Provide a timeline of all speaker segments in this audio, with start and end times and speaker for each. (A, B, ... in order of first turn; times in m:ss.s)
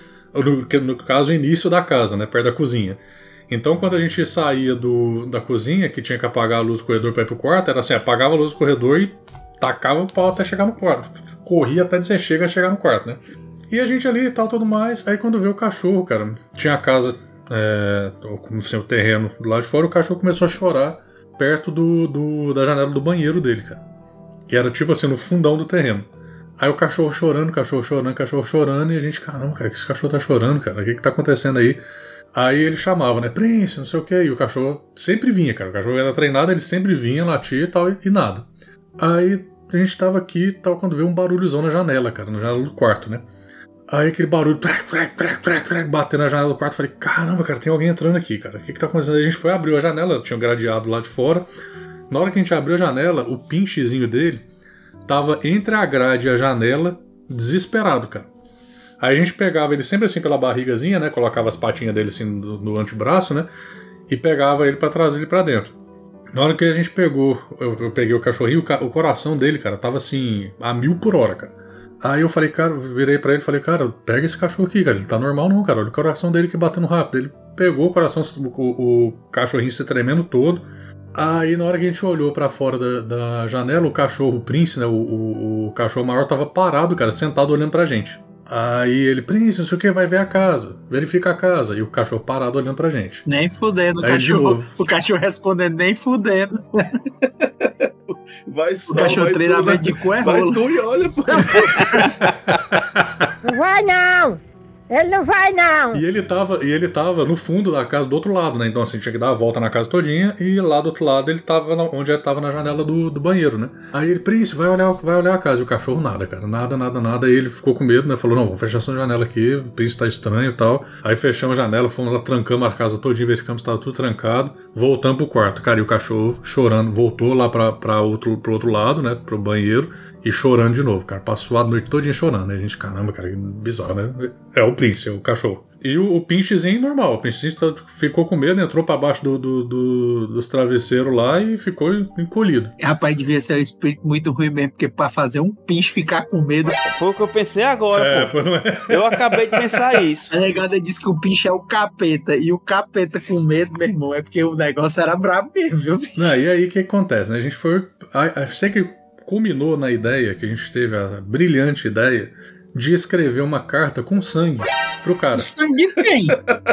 0:00.3-0:23.8 A
0:24.5-0:31.8 A
0:32.3-0:38.5 A
0:39.0-0:43.2 A
0:43.9-0:51.5 A
0:52.1-0:54.4 A
0:55.0-0:58.3 A
0:59.0-1:03.5 A
1:04.1-1:05.7 A
1:06.3-1:33.2 A
1:33.3-1:36.9 B
1:34.0-1:34.7 A
1:37.4-1:42.1 C
1:38.9-1:40.6 B
1:41.4-1:42.1 B
1:42.2-1:43.3 A
1:43.4-1:44.4 D
1:44.9-1:46.0 D
1:45.9-2:22.7 A
2:22.8-2:26.8 B
2:26.8-2:28.3 E
2:27.9-2:30.0 A
2:28.9-2:30.3 E
2:30.3-2:36.1 B
2:36.2-2:45.5 A
2:45.3-2:46.4 B